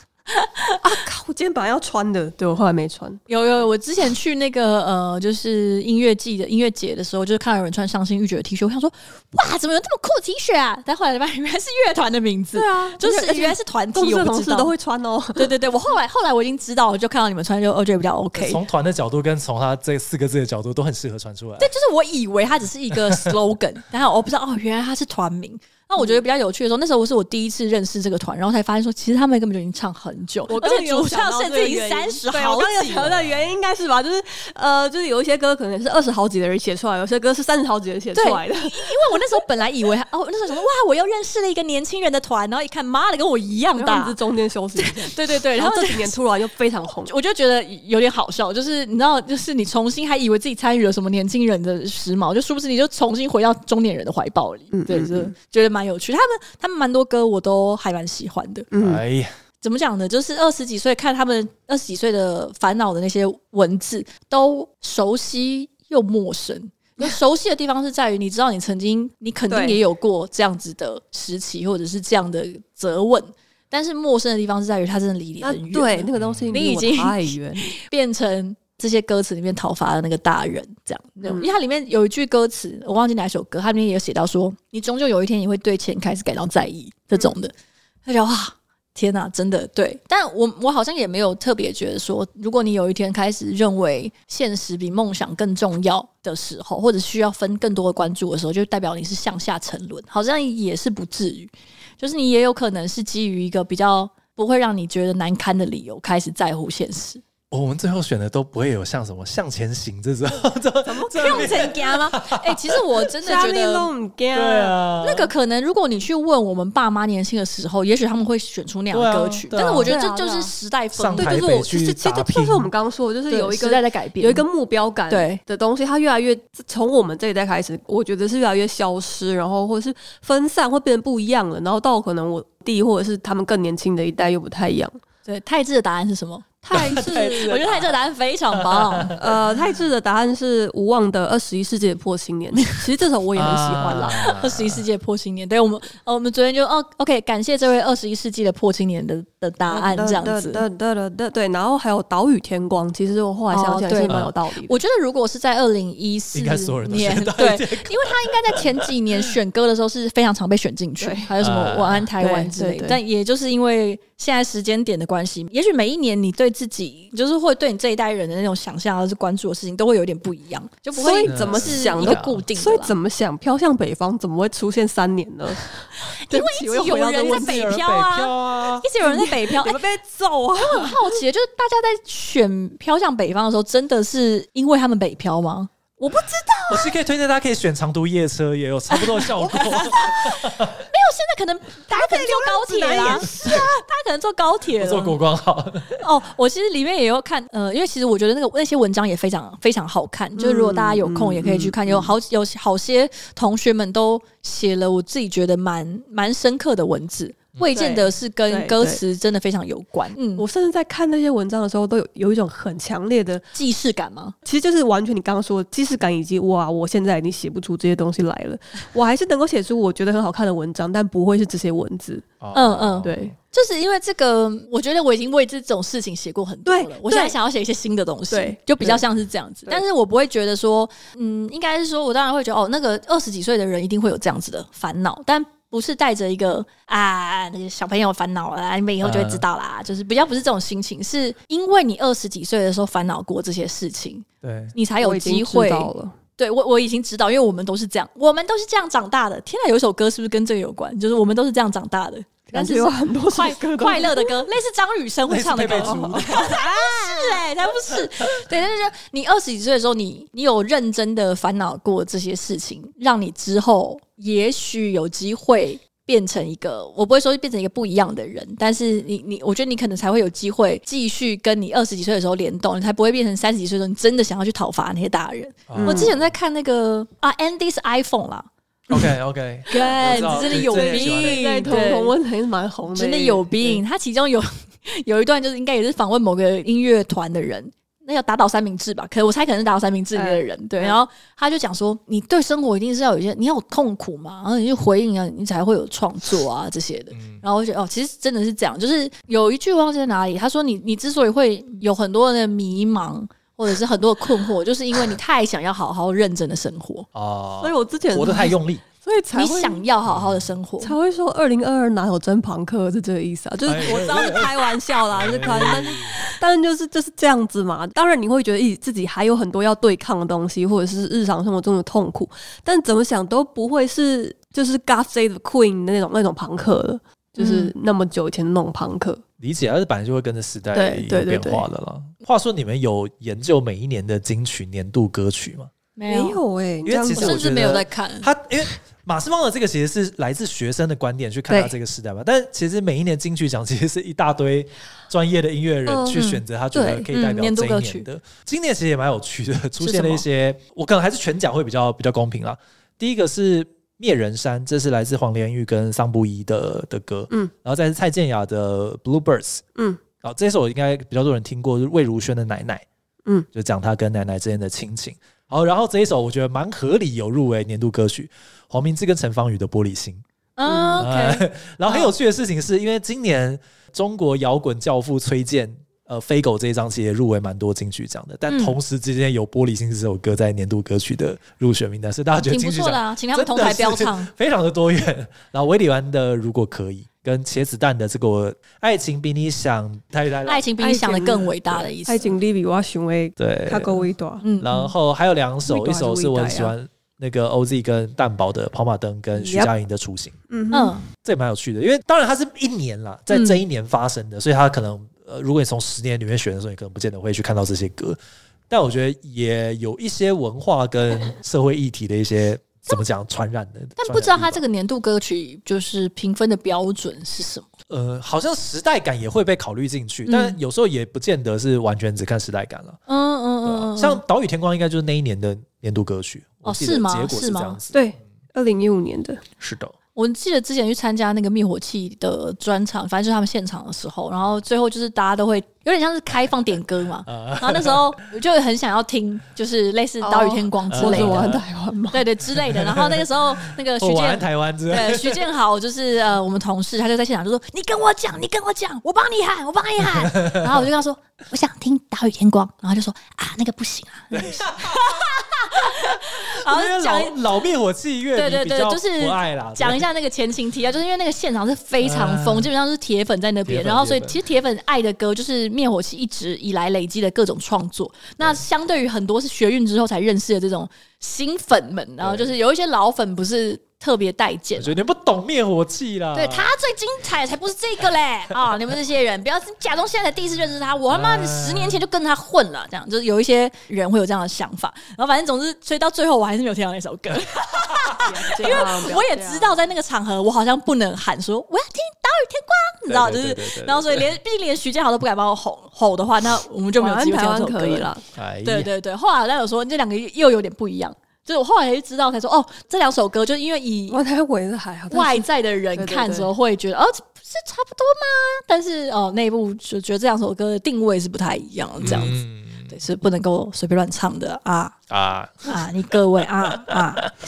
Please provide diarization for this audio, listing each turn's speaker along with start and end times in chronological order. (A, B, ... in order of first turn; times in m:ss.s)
0:00.3-0:00.8 A
0:00.8-0:03.2 B
0:03.3-0:14.7 A
0:12.5-0:15.5 B
0:15.4-0:18.6 A
0:18.4-0:21.7 C
0:21.6-0:33.1 A
0:22.9-0:23.3 C
0:30.5-0:39.2 B
0:33.0-0:33.4 C
0:38.1-0:44.1 A
0:43.8-0:47.1 B
0:44.8-0:46.2 A
0:47.0-0:58.7 A
0:54.7-0:55.3 B
0:58.7-0:59.0 B
0:58.8-0:59.3 C
0:59.6-1:27.5 A
1:09.5-1:09.8 B
1:15.4-1:17.7 B
1:16.2-1:16.6 C
1:21.2-1:21.5 B
1:28.0-1:47.2 A
1:47.5-1:52.8 C
1:50.8-1:51.8 B
1:51.2-1:53.9 A
1:53.2-1:54.8 B
1:54.3-1:55.3 C
1:55.0-2:01.6 A
1:58.9-2:00.0 C
1:59.8-2:00.5 B
2:00.9-2:02.7 C
2:01.2-2:15.0 B
2:03.3-2:04.4 A
2:05.1-2:05.4 A
2:15.2-2:19.2 A
2:16.6-2:17.6 B
2:16.7-2:17.9 C
2:18.5-2:19.2 C
2:19.2-2:24.2 B
2:23.4-2:24.8 C
2:24.1-2:30.6 A
2:29.7-2:34.8 B
2:33.5-2:52.9 A
2:34.1-2:34.3 C
2:36.3-2:38.9 C
2:41.0-2:41.3 B
2:41.4-2:42.1 C
2:42.2-2:43.0 B
2:50.9-2:57.6 B
2:51.3-2:52.4 C
2:56.0-2:59.8 A
2:57.2-2:58.8 C
2:59.0-3:01.2 B
3:00.6-3:06.7 A
3:06.0-3:06.8 B
3:06.7-3:10.8 C
3:09.1-3:15.2 A
3:11.9-3:13.6 B
3:14.7-3:16.0 C
3:16.0-3:30.4 A
3:20.4-3:22.1 B
3:27.7-3:29.0 B
3:30.4-3:33.4 B
3:33.5-3:34.3 A
3:34.4-3:42.3 B
3:42.4-3:43.3 C
3:42.5-4:38.5 A
3:43.0-3:43.3 B
3:46.6-3:47.3 B
3:48.3-3:49.0 B
3:59.0-3:59.4 C
4:04.4-4:04.7 C
4:05.0-4:06.2 B
4:12.5-4:14.4 B
4:15.3-4:16.5 C
4:15.6-4:17.4 B
4:35.7-4:36.3 C
4:35.8-4:36.1 B
4:38.9-4:41.9 C
4:39.7-4:42.1 A
4:40.0-4:43.8 B
4:42.9-5:07.1 A
4:50.1-4:51.0 B
4:57.1-4:57.4 C
5:07.1-5:08.8 C
5:07.6-5:09.8 B
5:09.3-5:10.9 A
5:10.1-5:10.5 C
5:10.8-5:29.2 B
5:13.6-5:14.5 C
5:13.7-5:14.6 A
5:15.1-5:16.2 C
5:15.5-5:15.8 A
5:27.4-5:27.7 A
5:29.4-5:35.7 C
5:30.7-5:31.6 B
5:36.0-5:36.4 A
5:36.1-5:37.6 B
5:36.8-5:59.6 C
5:37.1-5:38.3 A
5:41.5-5:41.7 B
5:45.9-5:47.1 B
5:47.1-5:48.1 A
5:49.8-5:50.2 A
6:00.2-6:02.8 C
6:03.5-6:10.2 C
6:10.6-6:12.1 A
6:10.6-6:11.0 B
6:11.0-6:30.7 C
6:18.5-6:18.8 A
6:22.4-6:24.3 A
6:30.4-6:32.3 A
6:30.8-6:34.4 B
6:33.4-6:34.1 C
6:34.4-6:34.9 A
6:34.6-6:40.4 C
6:35.6-6:36.7 B
6:39.4-6:39.7 B
6:40.5-6:40.9 B
6:40.7-6:41.0 A
6:41.2-6:48.2 C
6:43.3-6:43.6 A
6:48.7-6:54.6 C
6:54.0-6:57.7 A
6:57.9-7:03.0 C
7:00.2-7:00.6 A
7:03.1-7:04.2 A
7:03.6-7:08.0 C
7:06.6-7:07.8 A
7:07.9-7:09.4 B
7:09.6-7:09.9 C
7:10.1-7:21.5 A
7:17.3-7:18.1 C
7:20.2-7:22.2 B
7:20.9-7:21.6 C
7:22.1-7:37.4 A
7:22.5-7:25.4 C
7:34.3-7:35.3 C
7:36.4-7:40.0 C
7:38.3-7:55.0 A
7:42.0-7:42.7 C
7:43.7-7:44.4 C
7:52.2-7:52.5 C
7:54.8-7:56.7 C
7:56.3-8:18.1 A
8:01.1-8:02.0 C
8:08.2-8:09.8 B
8:13.0-8:14.3 C
8:17.0-8:18.2 B
8:18.3-8:18.9 C
8:18.6-8:24.2 A
8:24.1-8:26.5 B
8:25.1-8:35.0 A
8:32.0-8:32.9 C
8:35.1-8:35.8 C
8:35.6-8:37.3 A